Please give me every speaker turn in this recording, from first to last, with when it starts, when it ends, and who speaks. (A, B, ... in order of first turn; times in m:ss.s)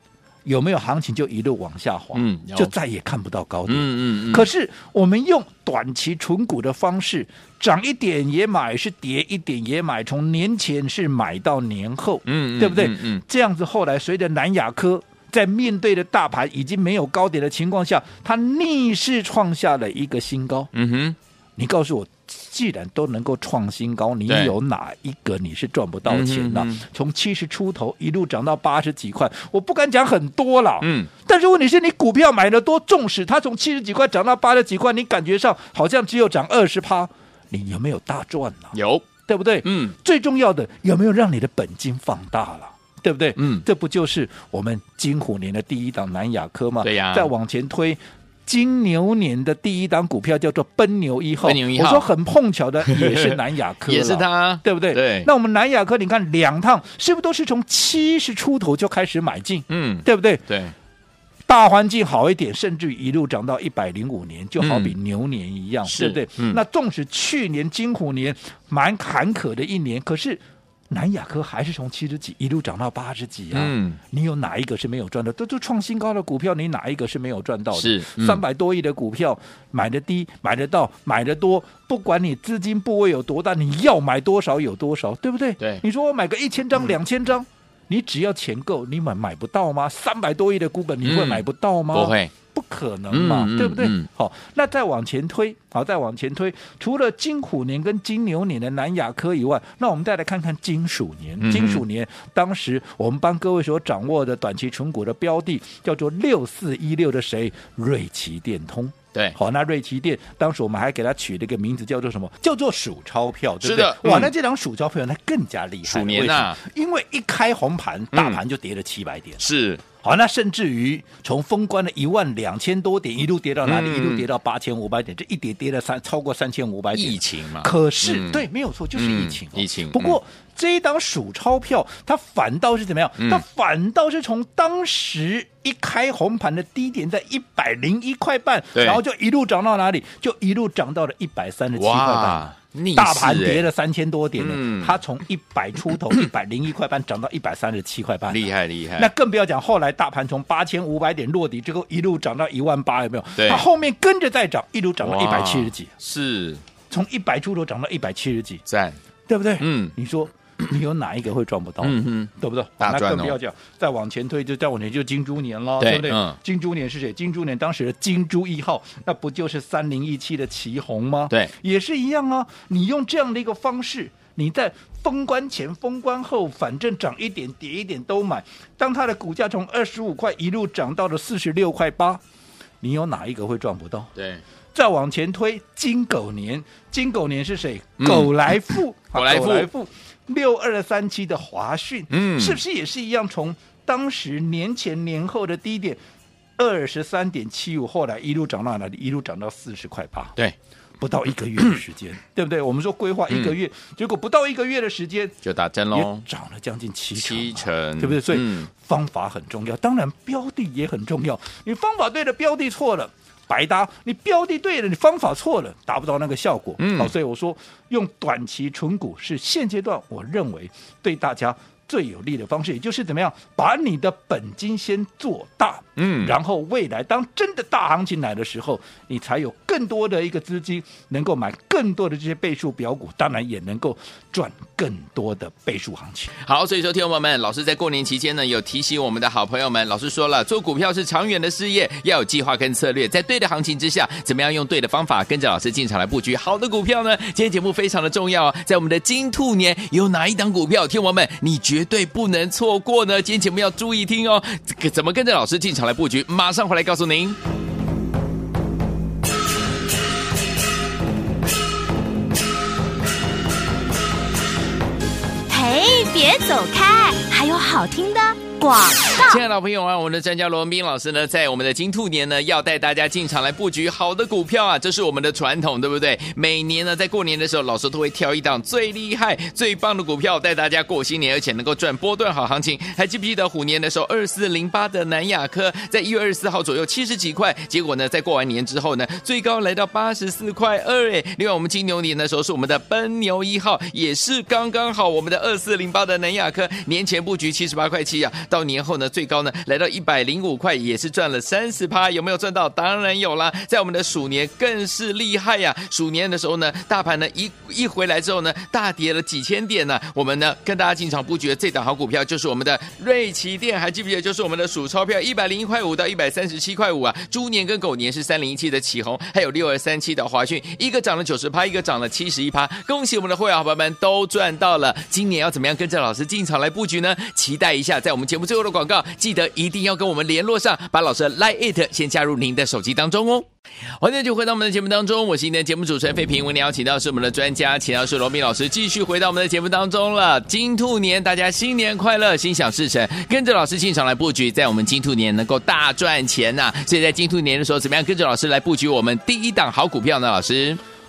0:00.4-0:20.7 A
0:02.1-0:02.7 B
0:03.7-0:04.5 B
0:12.2-0:13.2 B
0:20.7-0:21.2 B
0:21.6-1:00.4 A
0:24.3-0:24.5 B
0:26.1-0:26.8 B
0:30.8-0:31.1 B
0:38.7-0:39.1 B
0:39.6-0:39.9 B
0:43.4-0:43.6 B
0:46.8-0:47.3 B
0:51.4-0:52.1 B
0:52.8-0:55.3 B
0:59.7-1:00.7 B
1:01.5-1:59.4 A
1:04.6-1:04.9 B
1:05.8-1:06.6 B
1:13.5-1:14.0 B
1:17.7-1:18.4 B
1:31.0-1:32.3 B
1:33.1-1:34.1 B
1:41.4-1:41.8 B
1:53.6-1:54.3 B
1:55.8-1:56.6 B
1:58.1-1:58.4 B
1:59.4-1:59.8 B
2:00.0-2:28.4 A
2:03.6-2:04.2 B
2:06.9-2:08.4 B
2:08.9-2:10.2 B
2:13.2-2:13.4 B
2:18.7-2:19.0 B
2:21.8-2:23.7 B
2:24.4-2:25.0 B
2:28.3-2:29.1 B
2:29.0-2:35.9 A
2:33.4-2:33.6 B
2:35.0-2:36.6 B
2:36.9-2:38.6 A
2:38.7-2:39.0 B
2:39.3-3:02.2 A
2:39.6-2:39.9 B
2:41.8-2:43.4 B
2:45.8-2:46.4 B
3:02.8-3:04.1 A
3:04.1-3:04.4 B
3:04.7-3:16.0 A
3:08.0-3:08.3 B
3:09.1-3:09.7 B
3:12.1-3:12.6 B
3:16.6-3:20.4 A
3:21.0-3:25.4 A
3:23.3-3:23.5 B
3:25.4-3:26.2 B
3:25.9-3:56.3 A
3:27.1-3:28.7 B
3:36.8-3:37.1 B
3:46.0-3:46.3 B
3:56.4-4:17.4 B
4:25.5-4:29.4 C
4:29.2-5:33.5 B
5:34.0-5:50.8 B